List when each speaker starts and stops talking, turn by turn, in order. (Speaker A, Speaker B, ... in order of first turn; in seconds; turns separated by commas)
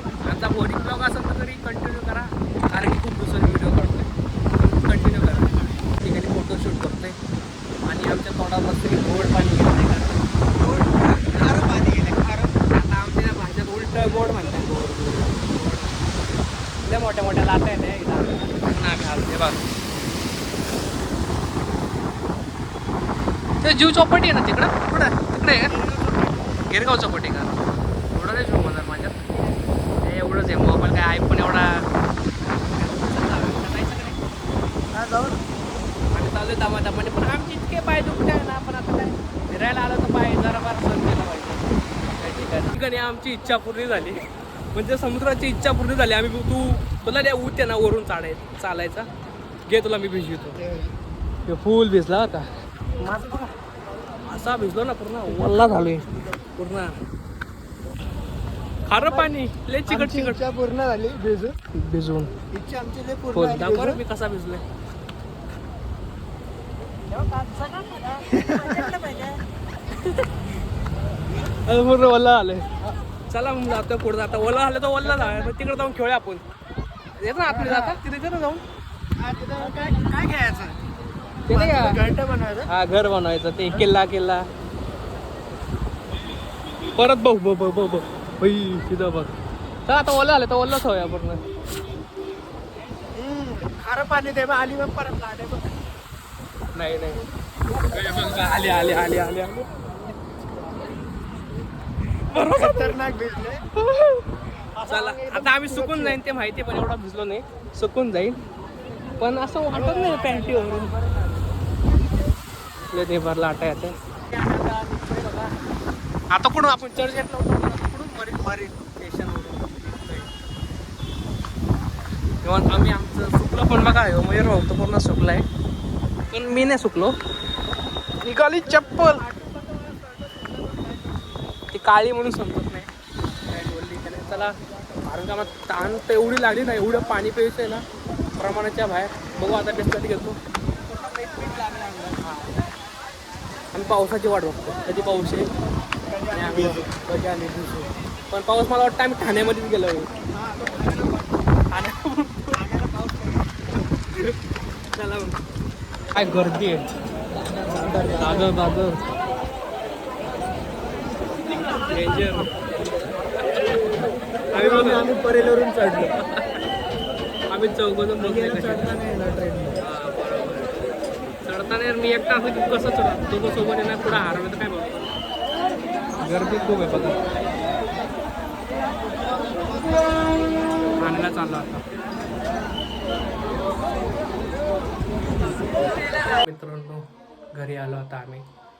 Speaker A: 0.2-7.2, Speaker A: 7.8-10.2, Speaker B: 10.6-12.6, Speaker A: 12.7-16.0, Speaker A: 16.8-19.6, Speaker A: 23.6-25.7, Speaker B: 25.7-26.4, Speaker A: 26.7-27.6, Speaker A: 28.1-29.2, Speaker A: 30.0-31.9, Speaker A: 32.7-34.2, Speaker B: 34.9-35.4, Speaker A: 36.1-49.1, Speaker A: 49.7-50.6, Speaker B: 50.5-51.0, Speaker A: 51.5-53.5, Speaker A: 54.3-56.9, Speaker A: 58.9-60.4, Speaker B: 58.9-59.3, Speaker B: 59.9-61.6, Speaker A: 61.7-62.3, Speaker B: 62.5-64.0, Speaker A: 63.3-64.6, Speaker B: 68.2-69.3, Speaker A: 69.9-70.3, Speaker A: 71.4-72.7, Speaker A: 73.3-76.4, Speaker A: 77.2-78.6, Speaker B: 77.5-78.0, Speaker B: 79.2-80.8, Speaker A: 81.5-82.0, Speaker B: 81.5-82.7, Speaker A: 82.7-84.5, Speaker A: 87.0-89.3, Speaker A: 89.9-91.4, Speaker B: 93.1-95.7, Speaker A: 96.8-97.2, Speaker A: 97.8-99.7, Speaker A: 102.3-103.0, Speaker B: 102.5-103.6, Speaker A: 103.8-104.3, Speaker B: 104.8-106.2, Speaker A: 104.9-108.4, Speaker A: 109.2-111.0, Speaker B: 109.9-111.3, Speaker A: 112.9-115.5, Speaker A: 116.3-120.3, Speaker B: 118.4-118.9, Speaker A: 122.4-125.5, Speaker A: 126.3-127.2, Speaker A: 128.2-129.8, Speaker A: 131.7-137.8, Speaker A: 138.4-140.4, Speaker A: 141.0-142.5, Speaker B: 141.2-142.2, Speaker A: 143.7-145.5, Speaker B: 146.1-146.9, Speaker A: 146.3-150.1, Speaker B: 150.3-151.4, Speaker A: 151.7-152.6, Speaker B: 152.5-153.5, Speaker A: 154.1-154.4, Speaker A: 154.9-155.4, Speaker A: 156.1-156.9, Speaker B: 157.4-158.6, Speaker A: 158.2-159.0, Speaker A: 161.7-163.1, Speaker A: 164.5-165.1, Speaker B: 164.5-166.1, Speaker A: 166.3-166.6, Speaker A: 167.5-169.0, Speaker B: 168.2-169.8, Speaker A: 169.8-170.7, Speaker A: 171.4-175.1, Speaker A: 176.2-177.3, Speaker B: 179.6-180.1, Speaker A: 181.0-181.8, Speaker A: 185.8-188.5